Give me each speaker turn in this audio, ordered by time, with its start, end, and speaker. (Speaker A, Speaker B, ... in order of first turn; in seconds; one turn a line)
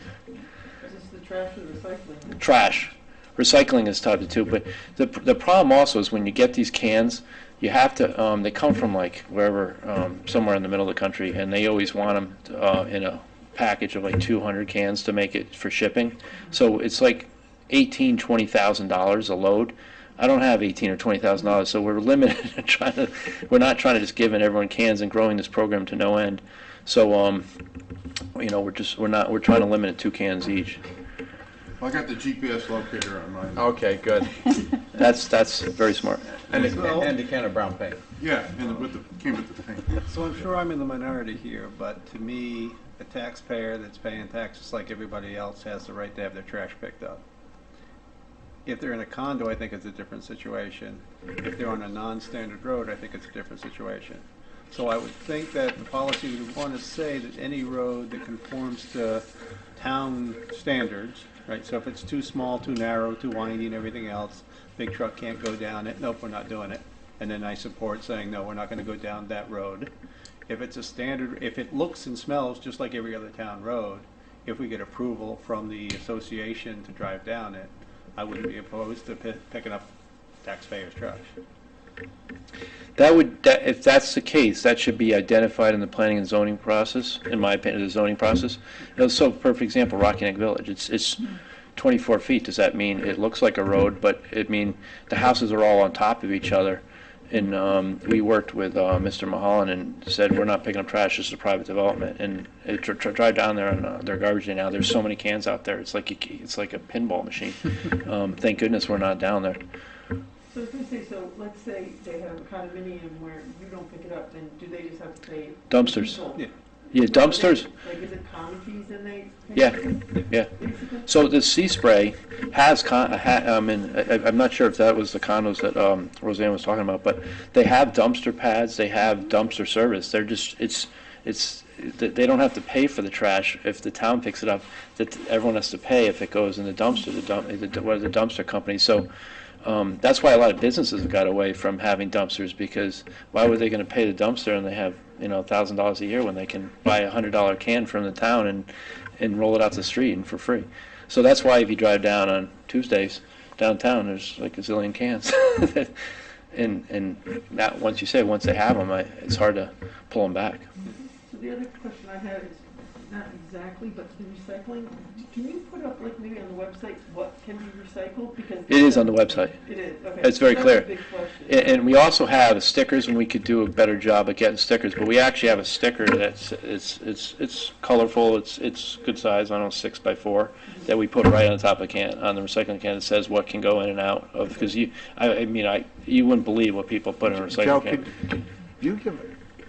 Speaker A: 0.8-2.6
Speaker B: 2.4-27.4
Speaker B: 28.4-30.8
Speaker C: 31.8-33.7
Speaker D: 33.6-34.4
Speaker B: 34.9-36.3
Speaker D: 36.5-38.0
Speaker C: 36.5-36.8
Speaker E: 36.5-37.1
Speaker C: 38.2-40.0
Speaker E: 40.0-47.2
Speaker E: 48.7-59.2
Speaker E: 59.8-69.9
Speaker E: 70.5-79.9
Speaker E: 80.4-81.3
Speaker B: 83.0-109.6
Speaker A: 110.5-121.1
Speaker B: 115.7-116.2
Speaker B: 116.9-117.7
Speaker B: 119.5-120.5
Speaker B: 121.0-139.1
Speaker B: 139.6-155.9
Speaker B: 156.5-160.7
Speaker A: 161.2-171.8
Speaker B: 168.7-169.6
Speaker B: 170.2-170.9
Speaker B: 171.5-188.0
Speaker D: 187.3-189.3